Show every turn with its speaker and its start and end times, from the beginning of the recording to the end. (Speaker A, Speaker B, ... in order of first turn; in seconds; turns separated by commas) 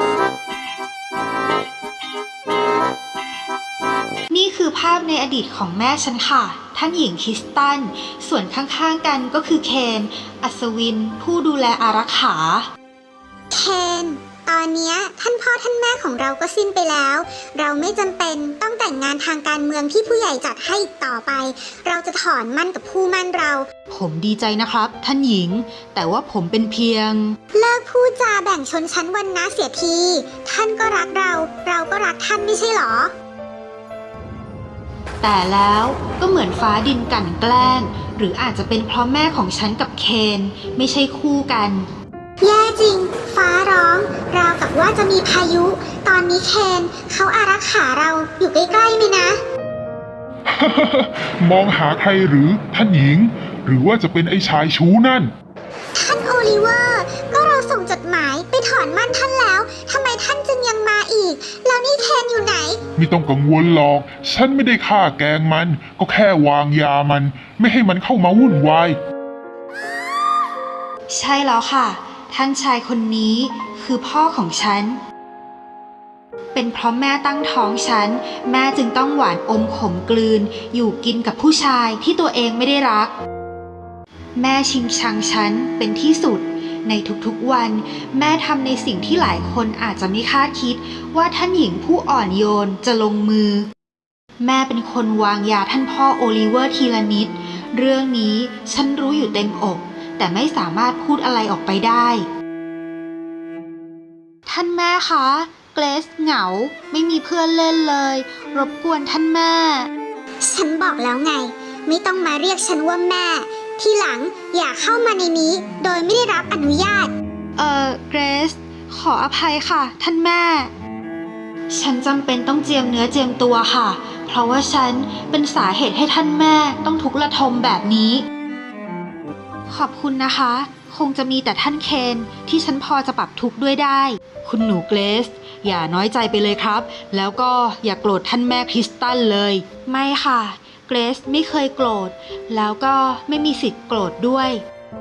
Speaker A: 4.3-12.7, Speaker B: 13.5-23.7, Speaker A: 23.9-27.4, Speaker B: 27.5-33.1, Speaker A: 35.2-41.9, Speaker B: 42.4-49.4, Speaker C: 50.5-55.3, Speaker B: 56.0-62.8, Speaker C: 63.0-69.0, Speaker A: 71.1-75.0, Speaker A: 76.5-83.1, Speaker A: 84.4-93.7, Speaker A: 94.4-102.2, Speaker A: 104.5-109.9, Speaker B: 110.4-117.1, Speaker A: 117.6-120.7, Speaker A: 121.7-128.2, Speaker A: 129.7-144.6